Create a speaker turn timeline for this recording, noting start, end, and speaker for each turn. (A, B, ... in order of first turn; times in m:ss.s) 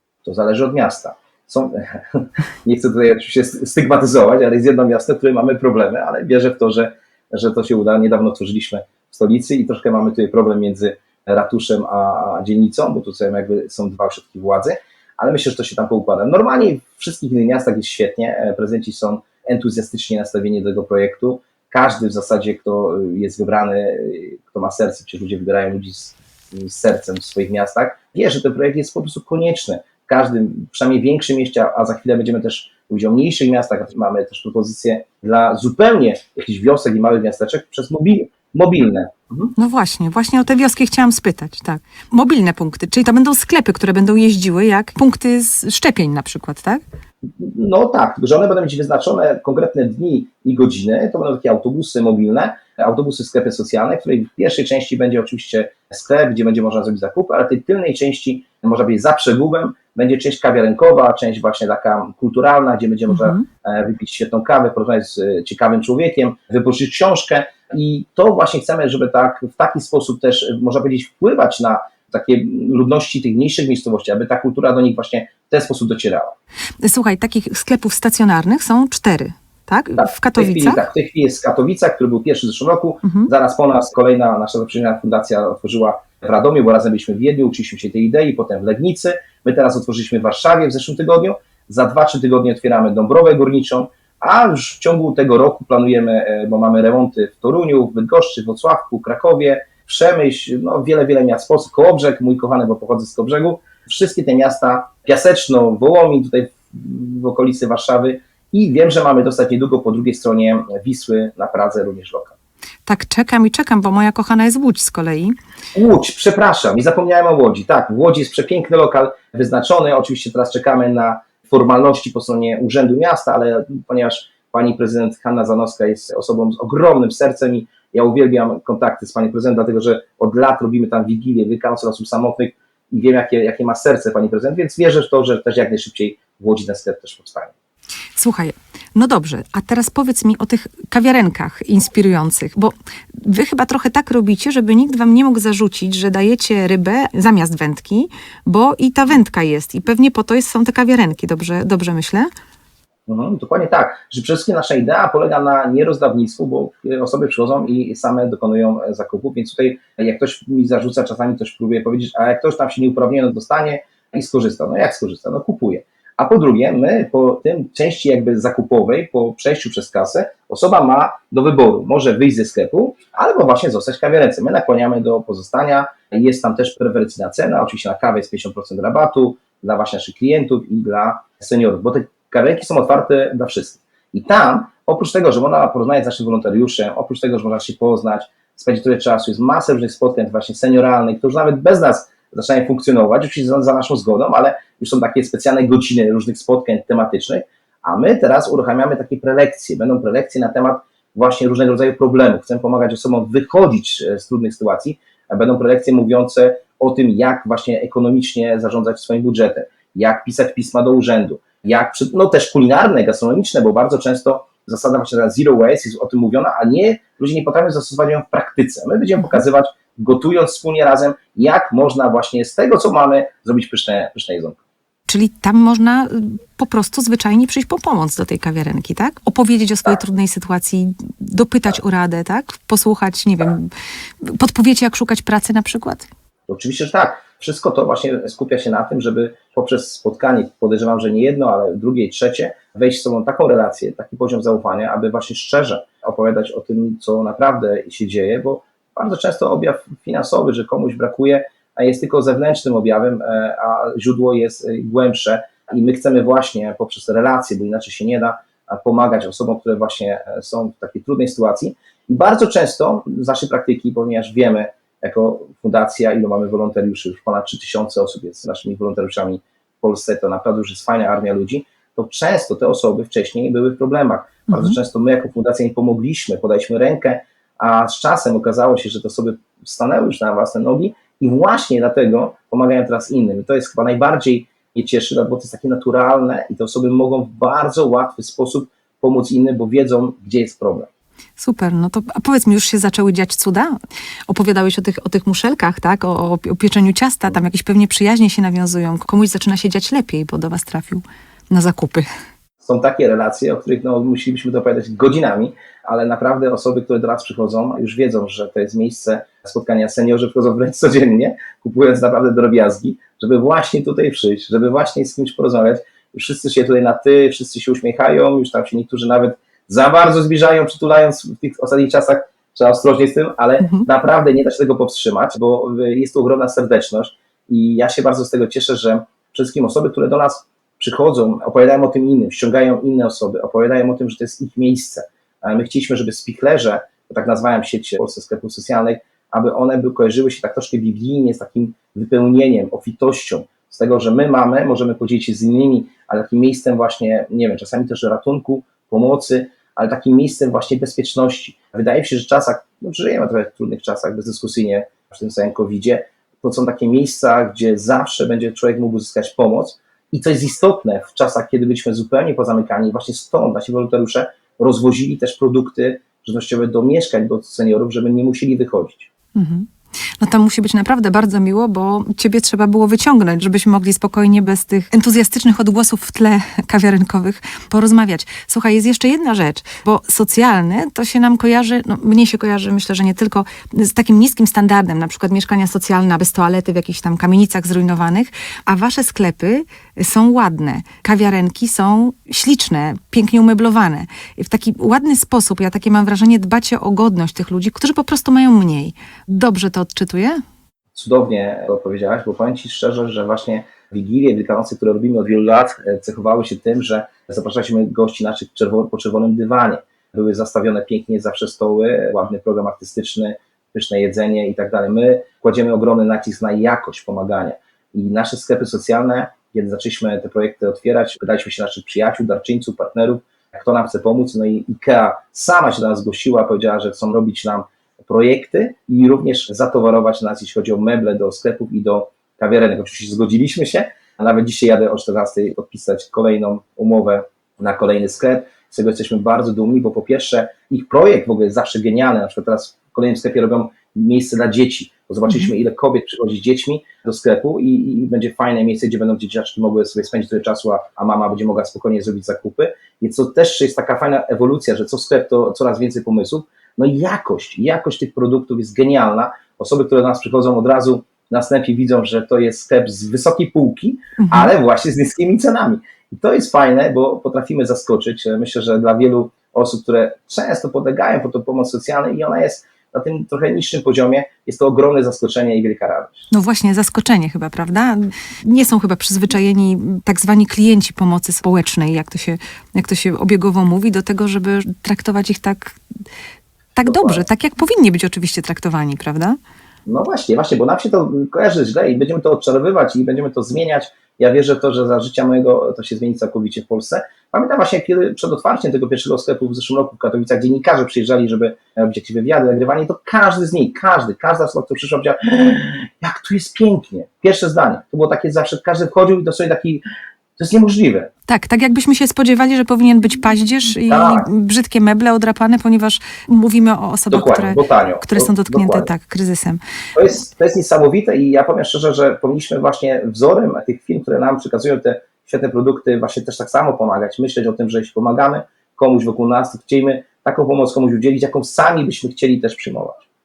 0:00.2-0:39.5 A
0:39.6-0:46.8 B
0:47.2-1:16.4 A
1:03.1-1:03.4 B
1:16.8-1:20.8 B
1:20.0-1:52.3 A
1:23.0-1:23.3 B
1:52.8-1:55.3 B
1:55.7-2:17.5 A
2:18.2-2:32.3 B
2:33.1-3:44.6 A
3:45.1-3:53.7 B
3:54.2-3:56.1 B
3:56.5-4:50.9 A
4:34.5-4:34.7 B
4:51.4-4:53.7 B
4:54.3-5:02.1 B
5:02.6-6:09.1 A
5:23.6-5:23.9 B
6:09.3-6:40.4 B
6:40.9-7:56.3 A
7:25.3-7:25.5 B
7:44.2-7:44.5 B
7:56.3-8:05.8 B
8:06.8-8:09.4 B
8:06.8-8:07.2 A
8:09.9-8:29.8 A
8:30.4-8:31.1 A
8:31.3-8:39.6 B
8:33.9-8:34.3 A
8:37.1-8:38.9 A
8:39.9-8:53.0 A